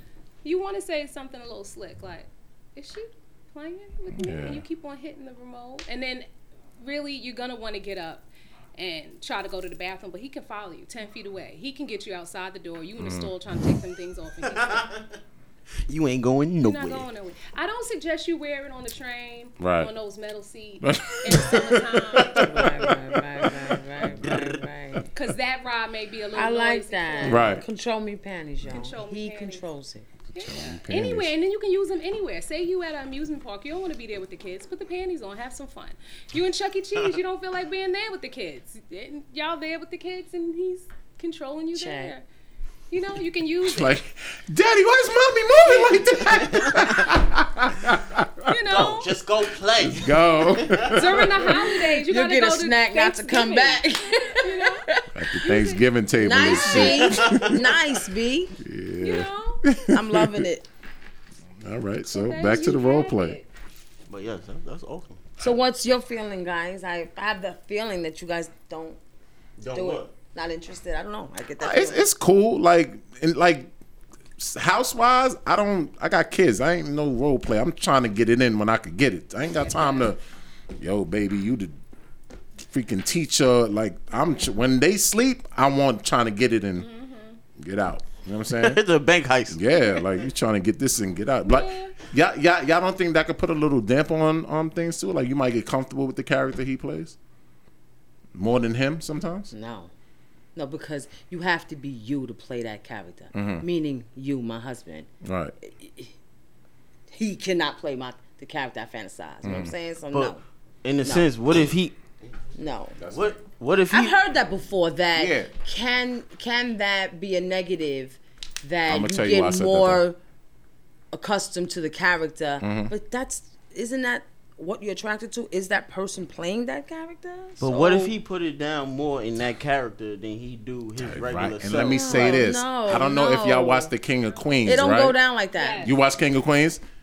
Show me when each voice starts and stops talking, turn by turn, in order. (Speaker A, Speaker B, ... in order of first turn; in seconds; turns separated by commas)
Speaker A: 0.4-6.3, Speaker B: 4.1-4.6, Speaker A: 6.8-14.9, Speaker B: 13.0-13.3, Speaker C: 14.6-15.0, Speaker C: 15.9-17.1, Speaker A: 16.6-22.4, Speaker B: 19.6-19.9, Speaker B: 20.8-21.8, Speaker C: 22.2-22.6, Speaker D: 22.4-25.1, Speaker B: 22.4-23.5, Speaker C: 24.0-24.6, Speaker A: 25.1-27.6, Speaker D: 26.3-30.1, Speaker B: 27.2-27.6, Speaker A: 28.7-29.6, Speaker B: 30.4-31.3, Speaker A: 30.4-42.2, Speaker D: 41.7-42.1, Speaker A: 42.9-44.0, Speaker B: 43.6-48.5, Speaker A: 45.7-46.2, Speaker C: 46.3-46.8, Speaker A: 48.5-49.1, Speaker C: 48.7-50.9, Speaker B: 49.8-51.7, Speaker A: 50.9-54.9, Speaker D: 51.5-55.1, Speaker B: 55.1-57.8, Speaker A: 55.4-55.9, Speaker D: 56.1-58.5, Speaker A: 56.4-57.1, Speaker C: 56.7-57.6, Speaker B: 58.6-60.5, Speaker A: 59.0-59.6, Speaker D: 59.9-60.7, Speaker B: 61.6-63.4, Speaker A: 62.1-63.5, Speaker C: 64.1-65.2, Speaker D: 65.4-69.0, Speaker C: 69.6-70.1, Speaker D: 69.7-72.1, Speaker B: 71.6-73.7, Speaker B: 74.4-80.2, Speaker A: 79.5-80.1, Speaker B: 80.8-81.8, Speaker B: 82.6-86.9, Speaker A: 86.8-87.4, Speaker B: 87.6-88.8, Speaker C: 88.6-90.0, Speaker B: 89.5-97.2, Speaker A: 91.5-92.0, Speaker B: 98.3-99.5, Speaker D: 99.5-99.9, Speaker D: 100.5-105.1, Speaker B: 103.3-103.7, Speaker B: 105.2-105.5, Speaker D: 105.6-106.1, Speaker D: 107.1-110.4, Speaker B: 109.4-109.7, Speaker C: 110.1-112.0, Speaker D: 111.0-111.3, Speaker D: 112.5-113.0, Speaker B: 113.0-113.3, Speaker C: 113.1-114.2, Speaker D: 113.9-120.2, Speaker B: 115.2-115.5, Speaker B: 118.9-120.0, Speaker D: 121.1-128.2, Speaker B: 122.6-122.9, Speaker C: 127.6-132.4, Speaker B: 131.0-135.2, Speaker D: 131.7-133.9, Speaker D: 134.7-135.9, Speaker A: 135.5-135.9, Speaker B: 135.8-136.8